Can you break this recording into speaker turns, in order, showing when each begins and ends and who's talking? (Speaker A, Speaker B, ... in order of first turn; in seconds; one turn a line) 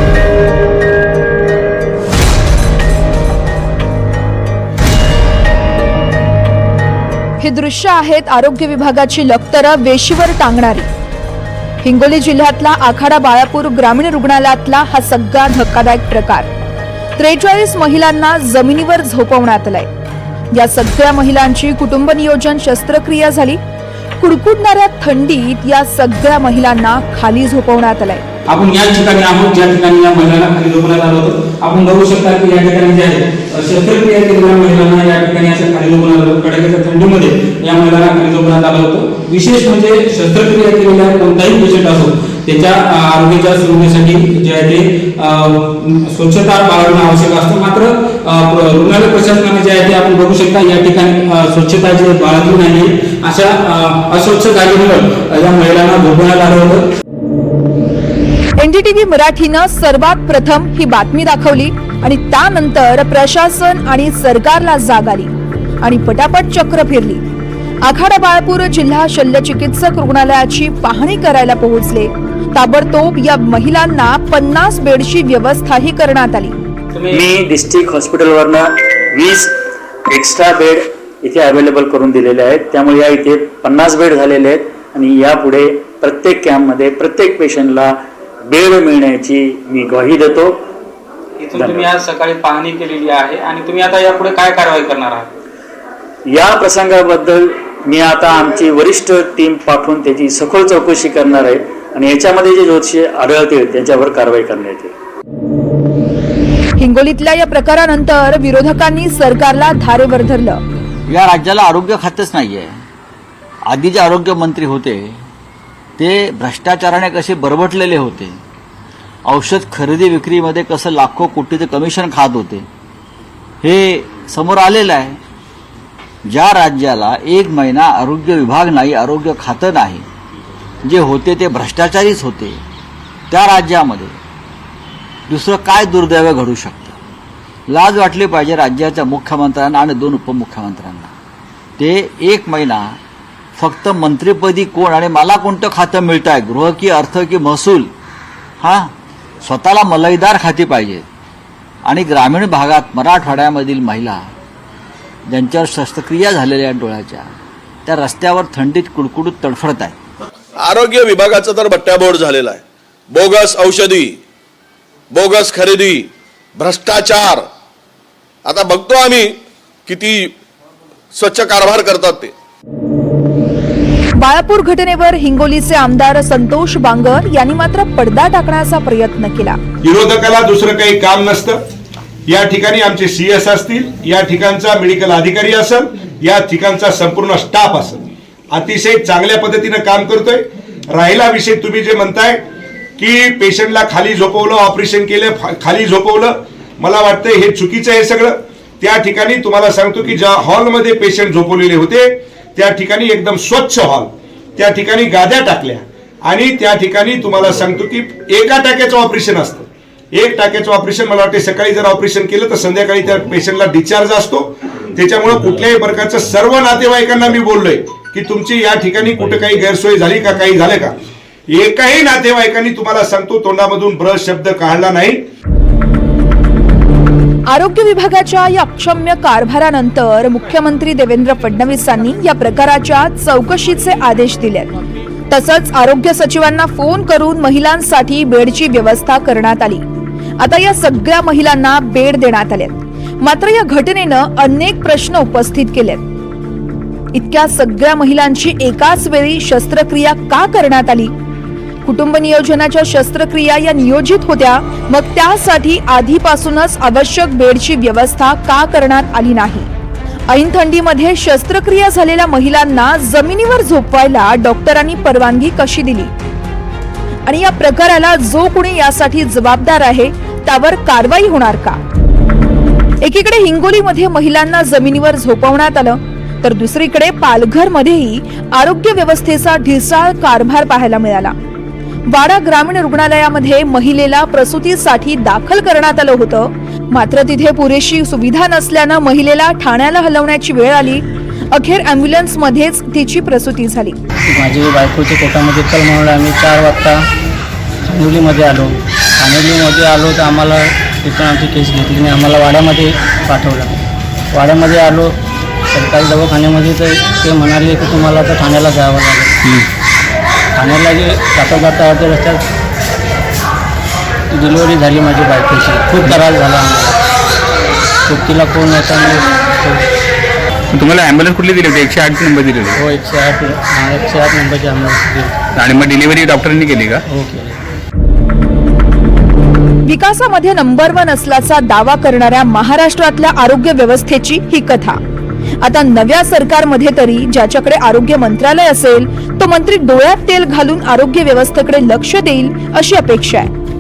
Speaker A: 7.4-10.9
Speaker A: 11.8-16.5
Speaker A: 17.2-19.9
Speaker A: 20.5-23.6
Speaker A: 24.2-28.2
Speaker B: 28.5-56.8
Speaker A: 58.6-67.2
Speaker A: 67.8-76.5
Speaker B: 76.9-77.2
Speaker C: 77.1-79.5
Speaker C: 80.1-87.9
Speaker C: 88.5-90.6
Speaker B: 91.4-95.3
Speaker C: 91.5-91.9
Speaker C: 96.3-104.9
Speaker A: 106.8-110.6
Speaker D: 111.1-112.8
Speaker D: 113.7-115.2
Speaker D: 116.0-118.4
Speaker D: 119.2-122.7
Speaker D: 123.6-125.2
Speaker D: 126.2-130.1
Speaker D: 130.8-132.6
Speaker D: 133.3-134.2
Speaker D: 135.3-137.0
Speaker D: 137.7-141.1
Speaker D: 141.8-143.0
Speaker D: 143.6-147.9
Speaker D: 148.6-151.1
Speaker D: 151.8-154.3
Speaker D: 155.2-157.3
Speaker D: 157.8-159.9
Speaker E: 160.6-164.2
Speaker E: 165.1-167.5
Speaker E: 168.4-170.3
Speaker E: 171.1-172.3
Speaker A: 174.2-179.6
Speaker F: 179.8-181.6
Speaker F: 182.3-192.4
Speaker F: 193.0-220.9
Speaker F: 221.5-225.2
Speaker A: 227.5-234.7
Speaker A: 235.3-239.8
Speaker A: 240.4-246.0
Speaker A: 247.1-251.1
Speaker A: 251.8-259.7
Speaker A: 260.3-266.1
Speaker A: 267.2-271.8
Speaker A: 273.0-281.3
Speaker A: 282.1-294.0
Speaker G: 294.3-297.1
Speaker G: 297.9-303.8
Speaker G: 304.3-305.2
Speaker G: 305.7-309.4
Speaker G: 310.5-312.4
Speaker G: 314.3-317.0
Speaker G: 318.1-319.8
Speaker G: 322.7-325.4
Speaker G: 327.1-327.5
Speaker A: 329.8-335.0
Speaker A: 335.6-343.5